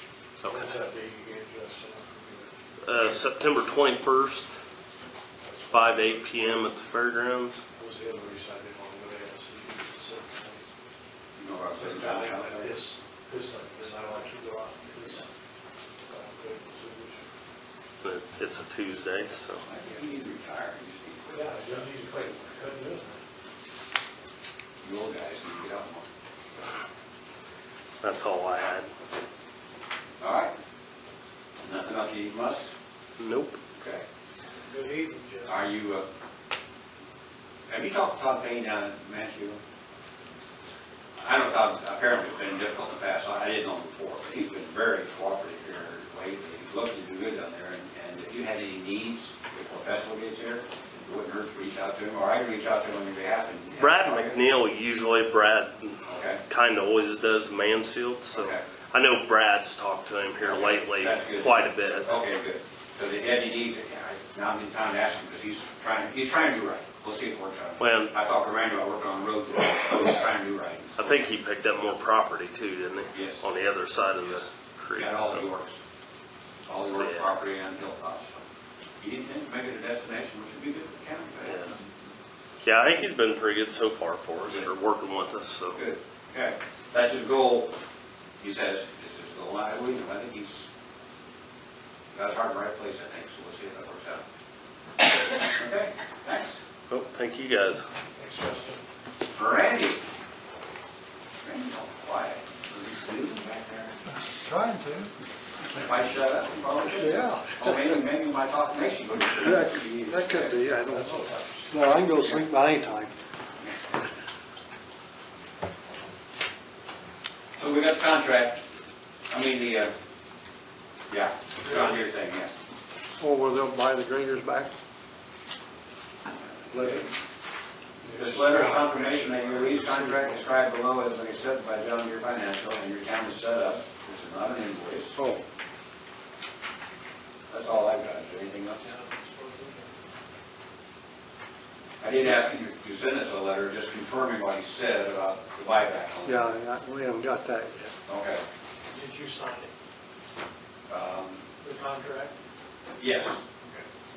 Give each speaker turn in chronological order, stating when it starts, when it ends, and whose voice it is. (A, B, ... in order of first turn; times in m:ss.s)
0:00.4-0:00.7 A
0:00.5-0:03.2 B
0:02.8-0:04.5 A
0:05.4-0:06.5 B
0:05.7-0:07.6 A
0:07.7-0:10.6 B
0:11.4-0:12.8 C
0:11.7-0:15.3 B
0:16.0-0:17.2 B
0:18.0-0:19.6 A
0:19.6-0:21.8 C
0:21.3-0:23.2 B
0:24.8-0:26.0 C
0:28.0-0:28.9 A
0:30.2-0:30.5 C
0:31.6-0:32.7 C
0:33.2-0:33.6 A
0:33.8-0:34.0 C
0:34.6-0:35.6 B
0:35.4-0:36.1 C
0:37.7-0:39.6 C
0:41.2-0:54.4 C
0:53.8-1:02.1 A
0:56.0-0:56.4 C
0:58.3-0:58.6 C
1:00.4-1:11.2 C
1:07.8-1:08.1 A
1:11.0-1:15.4 A
1:13.1-1:13.4 C
1:15.0-1:15.8 C
1:16.7-1:18.4 C
1:16.9-1:17.3 A
1:19.0-1:21.7 C
1:21.4-1:21.7 A
1:22.6-1:25.8 A
1:25.7-1:27.7 C
1:28.4-1:30.7 C
1:32.1-1:34.2 C
1:35.3-1:36.6 C
1:36.9-1:37.8 A
1:38.2-1:38.8 B
1:39.3-1:40.0 C
1:41.4-1:44.0 C
1:44.2-1:45.1 D
1:45.7-1:50.6 C
1:46.9-1:47.9 D
1:49.4-1:53.1 D
1:50.8-1:52.1 B
1:57.5-1:58.6 C
1:59.3-1:59.9 C
2:01.1-2:02.5 C
2:03.2-2:04.7 D
2:06.6-2:07.1 C
2:06.7-2:07.0 D
2:08.0-2:09.8 B
2:08.1-2:15.2 C
2:09.9-2:10.4 D
2:15.2-2:15.4 D
2:17.5-2:18.8 C
2:18.8-2:19.9 B
2:22.0-2:26.5 C
2:26.2-2:27.9 D
2:28.1-2:28.4 C
2:28.9-2:29.7 B
2:30.9-2:31.4 C
2:31.6-2:32.3 B
2:33.0-2:33.4 C